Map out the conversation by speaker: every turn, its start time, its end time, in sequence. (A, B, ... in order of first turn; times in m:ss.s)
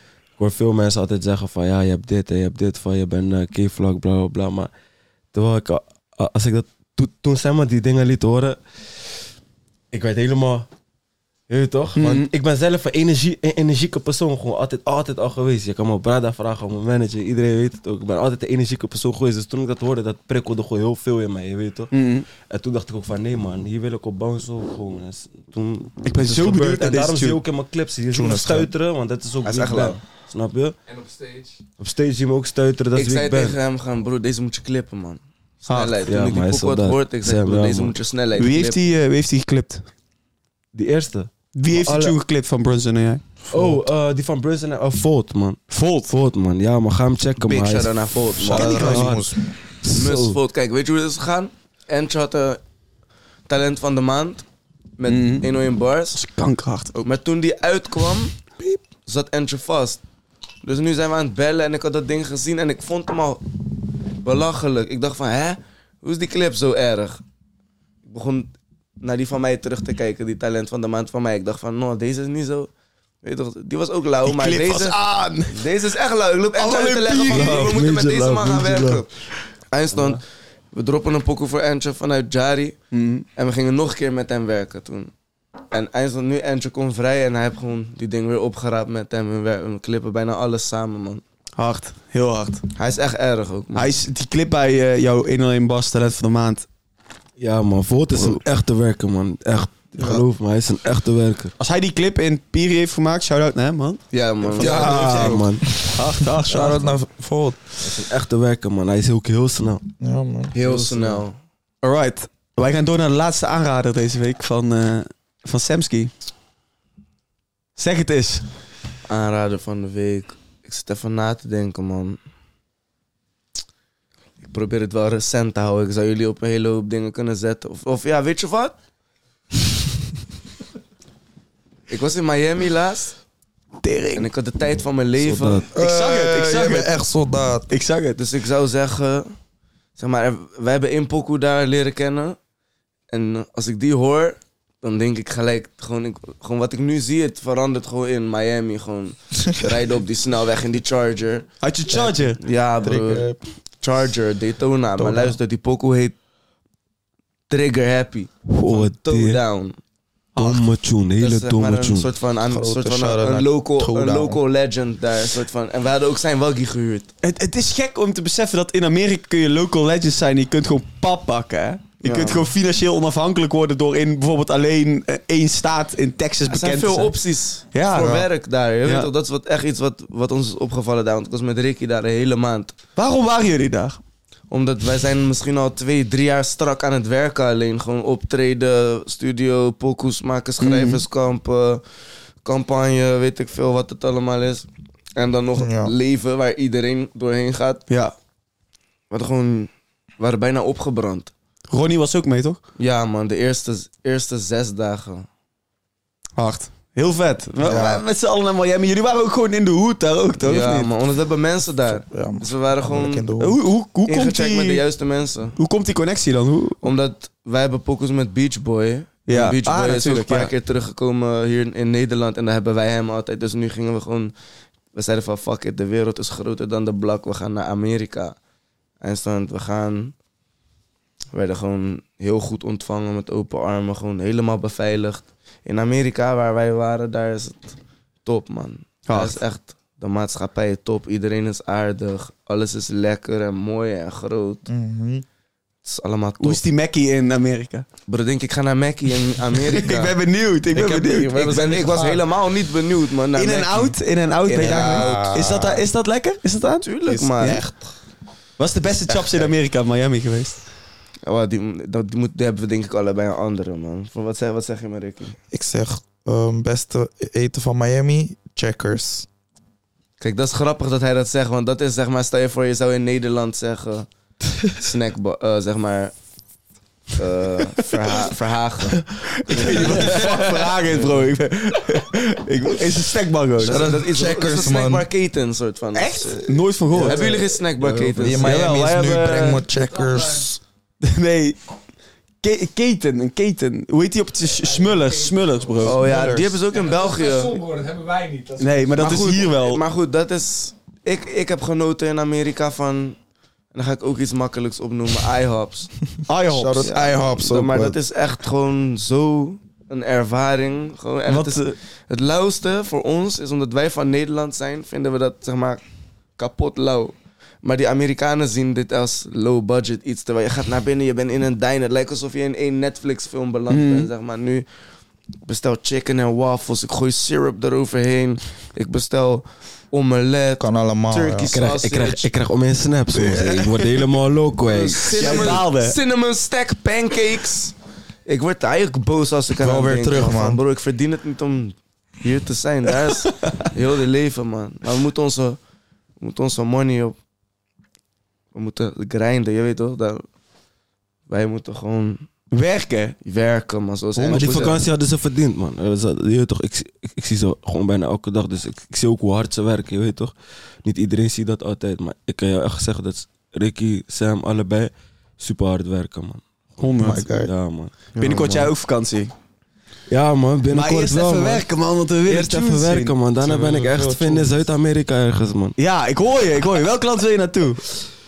0:00.4-0:04.7 A
0:05.3-0:08.6 A
0:09.9-0:10.7 A
0:11.5-0:30.8 A
0:12.0-0:12.3 B
0:21.9-0:22.3 B
0:26.0-0:27.4 B
0:28.1-0:28.7 C
0:29.4-0:30.0 D
0:30.9-0:31.6 E
0:31.8-0:33.6 A
0:33.0-0:38.8 D
0:35.7-0:35.9 B
0:36.0-0:38.0 A
0:38.4-0:39.8 B
0:40.7-0:42.2 A
0:41.6-0:43.2 B
0:43.5-0:43.8 C
0:43.5-0:50.4 A
0:45.7-0:46.1 B
0:47.4-0:49.1 D
0:48.4-0:49.5 C
0:48.5-0:49.1 B
0:49.9-0:52.6 D
0:53.5-0:54.4 D
0:55.0-0:56.2 D
0:55.1-0:55.5 B
0:56.1-0:57.0 B
0:57.0-0:58.3 D
0:59.0-1:00.0 D
1:00.6-1:03.4 D
1:04.2-1:07.2 D
1:08.0-1:12.7 D
1:13.2-1:15.0 D
1:14.2-1:15.6 B
1:15.5-1:19.1 D
1:16.5-1:17.7 B
1:17.3-1:19.0 A
1:19.7-1:20.2 D
1:19.9-1:20.2 A
1:20.7-1:22.8 D
1:22.9-1:23.2 B
1:23.4-1:25.1 D
1:25.7-1:31.2 D
1:31.6-1:32.6 B
1:32.8-1:33.9 D
1:33.7-1:36.6 B
1:37.4-1:41.5 A
1:38.1-1:38.4 D
1:41.6-1:47.0 B
1:44.1-1:45.3 D
1:44.5-1:45.7 A
1:45.7-1:47.6 C
1:47.8-1:49.8 A
1:50.0-1:50.5 C
1:50.5-1:51.2 A
1:50.5-1:51.4 D
1:51.8-1:56.1 B
1:57.8-1:58.4 B
1:59.1-2:02.2 D
2:04.4-2:08.8 D
2:11.9-2:13.1 D
2:13.8-2:14.3 B
2:14.2-2:15.7 D
2:15.2-2:15.7 A
2:15.7-2:17.7 C
2:15.8-2:16.9 B
2:17.7-2:18.2 B
2:18.2-2:19.3 D
2:20.0-2:22.4 D
2:23.1-2:33.3 D
2:31.6-2:32.4 B
2:32.8-2:33.4 C
2:33.8-2:36.1 D
2:35.0-2:35.3 C
2:37.5-2:39.8 D
2:38.5-2:39.4 A
2:40.4-2:40.6 B
2:40.4-2:42.1 A
2:41.2-2:47.1 D
2:42.5-2:44.4 C
2:47.2-2:57.2 B
2:52.0-2:52.5 D
2:56.5-3:02.7 D
2:57.7-2:58.2 B
2:57.9-2:58.2 C
2:58.8-2:59.1 B
3:03.0-3:04.0 B
3:04.5-3:11.8 D
3:10.6-3:11.0 B
3:12.4-3:17.8 D
3:15.6-3:15.9 C
3:17.9-3:18.1 B
3:19.1-3:21.3 D
3:21.7-3:22.6 B
3:22.8-3:25.2 D
3:26.4-3:30.9 B
3:27.6-3:28.0 C
3:30.4-3:33.3 D
3:32.0-3:33.6 C
3:33.4-3:34.8 B
3:34.1-3:35.6 D
3:35.6-3:36.8 B
3:36.8-3:44.3 D
3:39.3-3:40.5 B
3:44.9-3:48.4 D
3:49.0-3:50.1 D
3:51.3-3:57.7 D
3:58.2-4:04.6 D
3:59.1-3:59.4 B
4:04.7-4:05.2 C
4:05.8-4:06.6 D
4:06.4-4:07.8 B
4:08.1-4:10.2 D
4:09.7-4:11.7 B
4:10.7-4:12.2 C
4:11.4-4:13.9 D
4:13.4-4:16.9 B
4:14.5-4:15.2 D
4:14.5-4:15.9 C
4:16.8-4:17.6 D
4:17.0-4:17.9 C
4:18.6-4:20.6 B
4:19.1-4:19.5 C
4:21.2-4:25.3 D
4:25.5-4:29.3 C
4:30.2-4:34.0 D
4:34.7-4:36.1 D
4:37.2-4:41.1 D
4:39.3-4:43.9 B
4:43.6-4:48.7 D
4:43.7-4:45.1 C
4:45.9-4:47.3 B
4:47.8-4:48.4 A
4:48.2-4:50.6 C
4:48.4-4:49.6 B
4:49.8-4:50.5 E
4:51.0-4:51.6 B
4:52.4-4:56.0 B
4:54.7-4:55.6 E
4:55.8-4:57.6 D
4:55.8-4:56.6 C
4:56.7-4:59.2 E
4:58.6-4:59.8 B
4:59.0-5:03.2 D
5:03.7-5:05.9 D
5:06.3-5:06.9 B
5:06.5-5:07.9 C
5:06.8-5:15.8 D
5:11.3-5:11.8 B
5:16.4-5:24.7 D
5:23.7-5:24.1 B
5:25.4-5:32.3 D
5:30.6-5:31.5 C
5:31.5-5:35.5 A
5:33.2-5:33.9 B
5:34.6-5:37.7 D
5:35.1-5:36.0 B
5:38.2-5:45.6 D
5:39.6-5:40.6 C
5:46.2-5:47.2 D
5:48.5-5:50.2 D
5:51.3-5:52.2 D
5:52.5-5:53.2 B
5:53.2-5:54.8 D
5:54.2-5:54.7 B
5:54.2-6:06.4 A
6:06.8-6:07.2 B
6:07.0-6:07.5 C
6:07.2-6:08.0 A
6:08.1-6:08.7 D
6:08.2-6:09.3 B
6:10.1-6:11.7 A
6:10.7-6:13.1 B
6:12.2-6:15.8 A
6:13.4-6:14.5 C
6:15.8-6:17.8 B